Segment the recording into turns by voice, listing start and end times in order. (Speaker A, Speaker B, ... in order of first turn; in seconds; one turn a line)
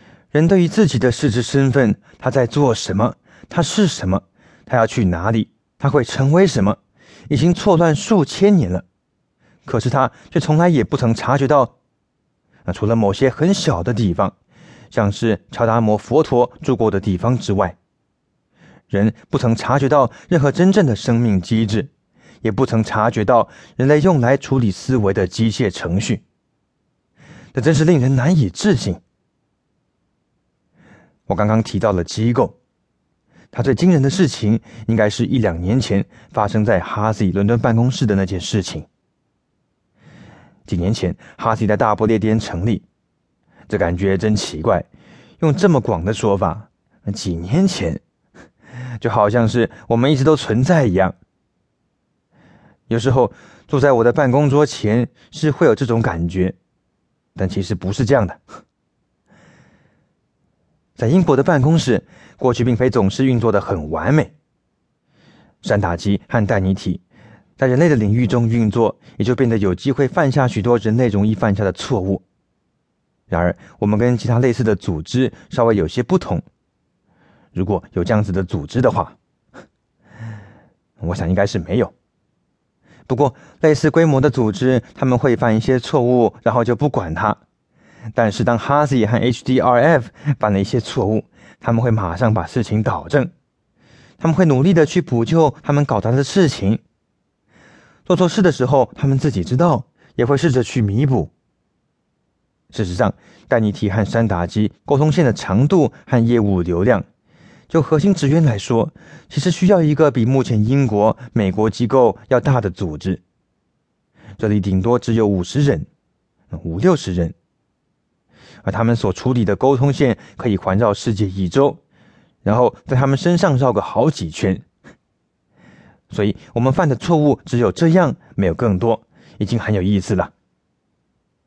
Speaker A: 0.3-6.8
Speaker A: 7.3-8.8
Speaker A: 9.6-11.7
Speaker A: 12.7-14.3
Speaker A: 14.9-17.8
Speaker A: 18.9-21.9
Speaker A: 22.4-26.2
Speaker A: 27.5-29.0
Speaker A: 31.3-32.5
Speaker A: 33.5-38.9
Speaker A: 40.6-42.8
Speaker A: 43.7-44.9
Speaker A: 45.4-48.0
Speaker A: 49.0-51.1
Speaker A: 52.9-56.5
Speaker A: 57.3-58.4
Speaker A: 61.0-64.3
Speaker A: 65.6-67.0
Speaker A: 67.6-72.2
Speaker A: 73.3-76.4
Speaker A: 77.5-79.2
Speaker A: 81.0-81.9
Speaker A: 83.1-87.4
Speaker A: 88.1-93.3
Speaker A: 94.2-96.8
Speaker A: 98.0-101.3
Speaker A: 102.7-107.0
Speaker A: 107.7-113.2
Speaker A: 114.4-115.9
Speaker A: 116.5-117.3
Speaker A: 118.6-121.8
Speaker A: 122.4-124.6
Speaker A: 126.1-130.3